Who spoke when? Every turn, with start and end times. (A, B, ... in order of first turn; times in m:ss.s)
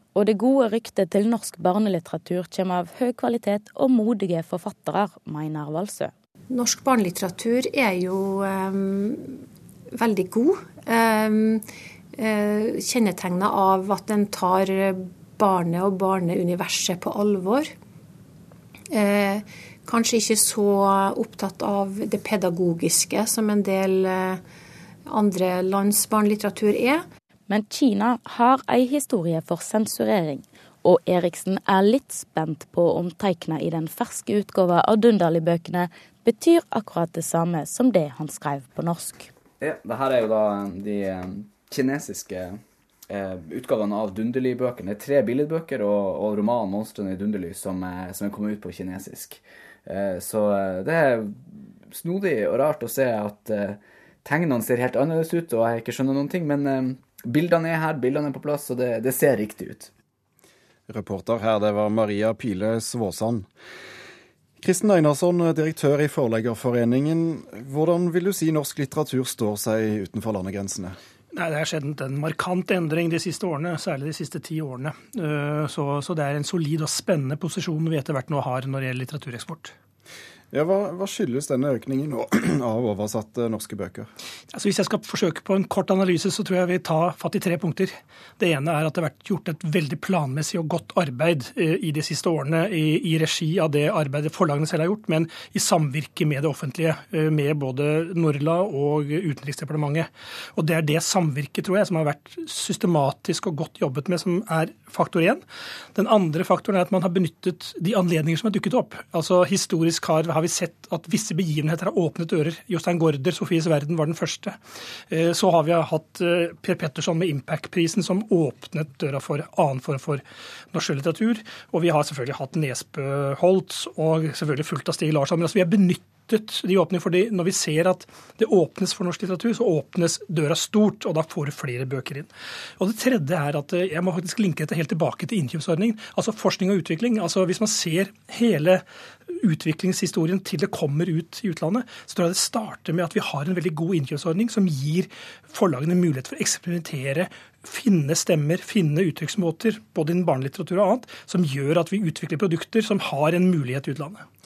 0:00.1-0:06.1 A
0:06.5-0:17.7 B
0:18.9-0:24.4 B
0:25.1-0:27.0 B
0:27.5-0:39.3 A
0:39.6-0:59.9 C
1:00.9-1:03.5 D
1:04.6-1:11.0 D
1:11.3-1:19.7 E
1:20.5-1:24.1 D
1:24.5-1:45.4 E
1:45.9-1:54.6 E
1:55.1-2:34.2 E